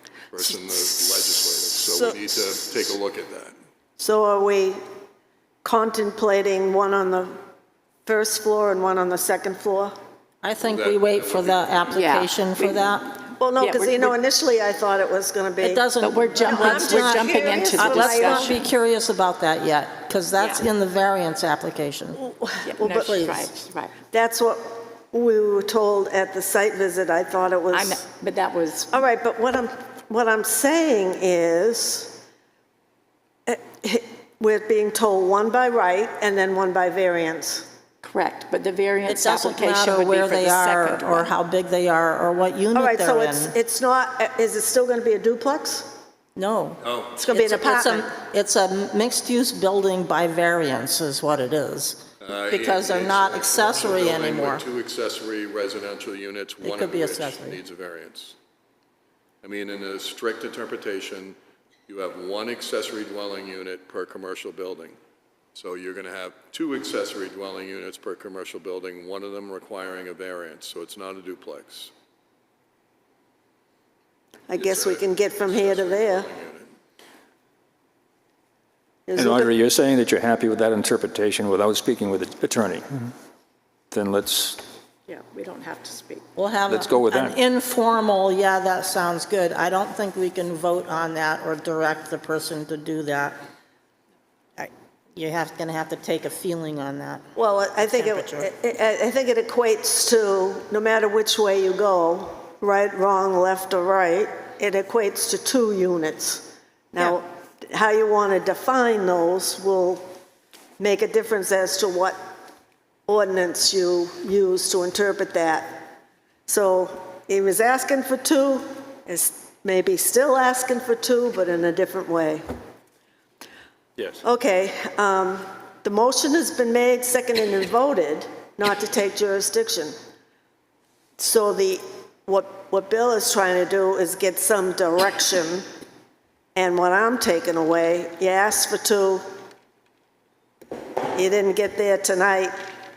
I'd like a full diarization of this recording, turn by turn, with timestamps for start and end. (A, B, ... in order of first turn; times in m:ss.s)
0:00.3-0:03.5 A
0:04.0-0:04.8 B
0:05.6-0:07.3 B
0:08.0-0:09.9 B
0:10.4-0:13.2 C
0:10.6-0:11.9 A
0:11.9-0:12.9 D
0:13.4-0:18.6 B
0:13.6-0:14.1 D
0:15.6-0:22.2 C
0:16.0-0:18.7 D
0:20.4-0:20.6 D
0:22.2-0:23.1 B
0:22.6-0:23.9 D
0:22.9-0:23.5 C
0:24.1-0:28.0 B
0:27.7-0:28.9 D
0:28.9-0:32.2 B
0:33.5-0:37.7 B
0:38.0-0:41.3 D
0:39.0-0:43.6 C
0:42.7-0:45.9 B
0:46.4-0:54.6 C
0:46.8-0:47.2 A
0:47.2-0:48.1 B
0:52.2-0:58.4 A
0:56.6-0:57.6 C
0:59.4-1:05.0 A
1:05.5-1:11.9 A
1:14.5-1:16.3 B
1:14.6-1:16.7 A
1:19.1-1:19.5 B
1:19.2-1:23.1 E
1:23.9-1:24.6 E
1:25.1-1:26.2 D
1:26.4-1:33.4 C
1:26.7-1:27.4 E
1:34.6-1:38.5 C
1:37.3-1:50.0 B
1:50.8-1:52.2 B
1:53.1-1:55.9 B
1:56.5-2:02.4 B
2:04.2-2:09.9 B
2:11.2-2:15.6 B
2:16.5-2:19.2 B
2:21.1-2:22.5 B